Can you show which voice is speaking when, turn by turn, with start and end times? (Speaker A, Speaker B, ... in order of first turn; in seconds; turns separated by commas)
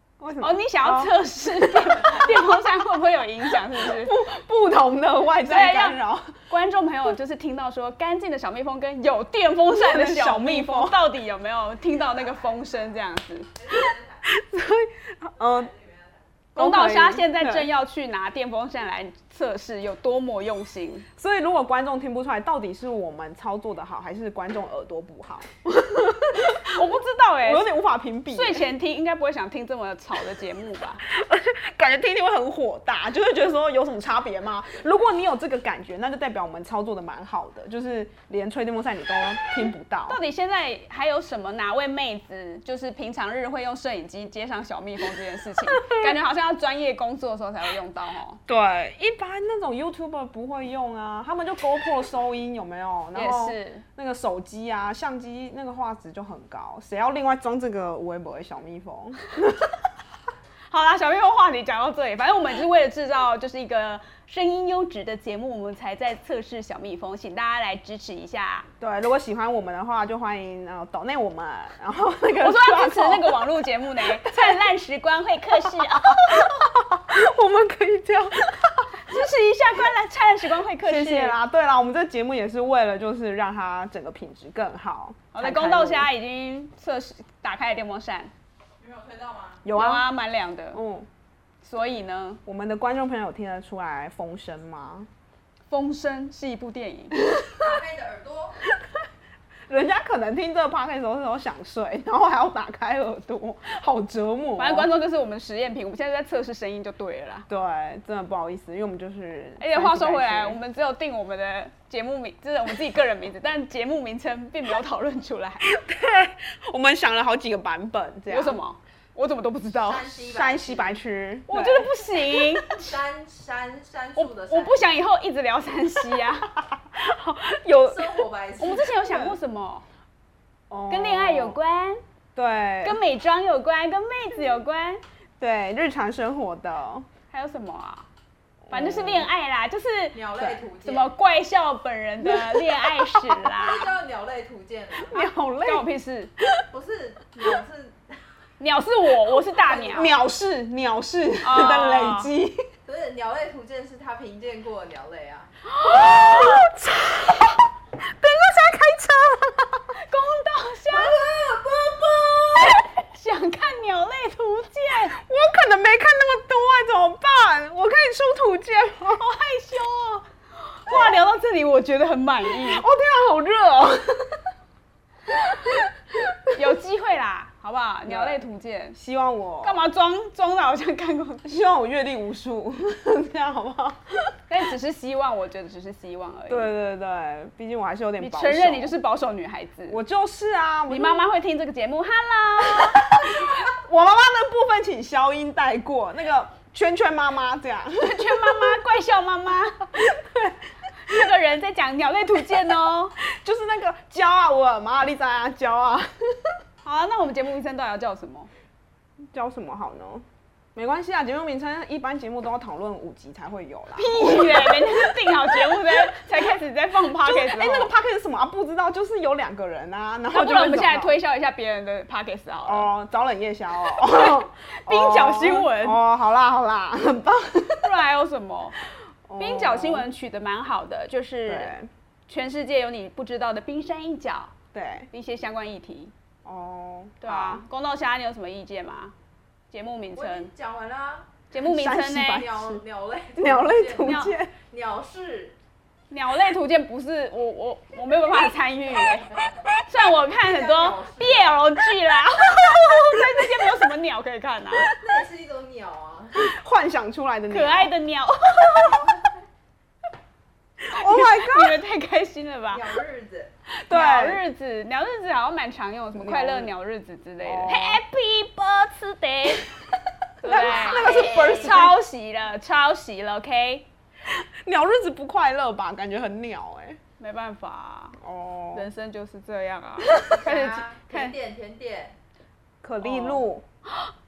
Speaker A: 0.2-1.2, Speaker B: 0.4-4.2, Speaker C: 2.0-2.4, Speaker A: 3.7-6.3, Speaker B: 5.4-13.5, Speaker A: 9.7-11.0, Speaker C: 13.6-14.2, Speaker A: 13.7-15.7, Speaker C: 15.7-16.0, Speaker A: 16.6-17.7, Speaker B: 16.6-21.1, Speaker A: 21.2-26.8, Speaker B: 26.4-27.7, Speaker A: 27.4-28.7, Speaker B: 28.3-31.0, Speaker A: 31.1-40.2, Speaker B: 40.1-48.4, Speaker A: 45.8-46.1, Speaker A: 48.5-59.8, Speaker B: 53.1-53.9, Speaker B: 60.7-68.7, Speaker A: 68.8-73.5, Speaker B: 72.4-76.5, Speaker A: 74.2-74.6, Speaker A: 75.7-79.0, Speaker B: 79.0-81.4, Speaker A: 80.8-86.1, Speaker B: 85.3-88.3, Speaker C: 88.8-89.6, Speaker A: 89.7-90.1, Speaker B: 89.7-90.8, Speaker A: 90.7-91.1, Speaker B: 91.6-92.4, Speaker A: 92.5-95.1, Speaker B: 95.7-97.2, Speaker A: 97.3-97.7, Speaker C: 97.5-98.6, Speaker A: 99.7-104.9, Speaker B: 104.6-107.5, Speaker A: 107.5-110.6, Speaker B: 109.6-115.6, Speaker A: 115.6-118.6, Speaker B: 118.3-120.1, Speaker C: 119.8-121.0, Speaker A: 120.2-122.6, Speaker B: 121.5-123.0, Speaker C: 122.8-124.8, Speaker B: 124.2-126.5, Speaker A: 126.8-128.2, Speaker C: 127.9-128.9, Speaker B: 128.6-129.8, Speaker A: 128.9-129.4, Speaker A: 130.7-131.6, Speaker B: 130.9-132.0, Speaker A: 132.4-133.0, Speaker B: 132.8-135.0, Speaker A: 135.4-137.1, Speaker B: 137.3-138.1, Speaker A: 138.7-139.3, Speaker B: 138.7-143.9, Speaker C: 140.1-141.1, Speaker A: 142.2-143.5, Speaker C: 143.4-145.2, Speaker A: 144.9-145.9, Speaker B: 145.6-146.3, Speaker C: 146.7-148.1, Speaker B: 148.6-150.1, Speaker C: 149.5-150.2, Speaker A: 149.9-152.7, Speaker B: 151.4-152.3, Speaker C: 152.9-155.5, Speaker B: 155.8-156.6, Speaker A: 155.8-159.9, Speaker B: 159.9-161.2, Speaker C: 160.9-162.4, Speaker B: 162.9-165.2, Speaker A: 165.0-169.2, Speaker B: 169.1-172.8, Speaker A: 170.9-171.2, Speaker A: 172.4-174.4, Speaker A: 175.3-176.5, Speaker B: 176.5-179.0, Speaker A: 178.1-178.4, Speaker A: 178.9-179.8, Speaker B: 179.6-181.5, Speaker A: 181.4-184.3, Speaker B: 184.5-186.7, Speaker A: 186.5-189.0, Speaker B: 188.2-190.0, Speaker A: 189.9-191.3, Speaker B: 190.9-193.3, Speaker A: 192.8-198.8, Speaker B: 198.0-199.9, Speaker A: 200.1-200.6, Speaker B: 201.0-203.2, Speaker A: 203.3-206.5, Speaker B: 206.8-208.5, Speaker A: 209.3-216.2, Speaker B: 213.9-217.9, Speaker A: 217.1-221.2, Speaker B: 220.3-222.9, Speaker A: 222.6-227.9, Speaker B: 224.0-226.0, Speaker B: 227.8-228.8, Speaker A: 229.3-230.1, Speaker B: 229.4-231.7, Speaker A: 231.5-231.9, Speaker B: 232.3-234.5, Speaker A: 234.7-235.1, Speaker B: 235.1-236.1, Speaker A: 236.4-237.6, Speaker B: 237.2-239.1, Speaker B: 239.7-240.5, Speaker C: 240.2-241.5, Speaker B: 241.5-242.5, Speaker A: 241.6-242.8, Speaker C: 242.2-245.6, Speaker A: 243.4-244.6, Speaker B: 244.0-244.4, Speaker B: 246.1-254.9, Speaker C: 250.3-251.6, Speaker A: 252.5-253.7, Speaker C: 254.8-256.4, Speaker A: 256.3-257.9, Speaker B: 257.5-259.1, Speaker A: 260.8-261.8, Speaker B: 260.9-262.9, Speaker C: 262.7-263.5, Speaker A: 263.8-264.4, Speaker B: 263.9-269.7, Speaker A: 266.1-266.7, Speaker A: 267.4-268.0, Speaker B: 270.4-273.9, Speaker A: 270.4-272.0, Speaker C: 270.5-271.8, Speaker A: 274.3-277.0, Speaker B: 277.2-278.2, Speaker A: 278.2-278.9, Speaker B: 278.7-281.3, Speaker C: 280.3-282.2, Speaker A: 282.8-283.6, Speaker B: 283.0-283.4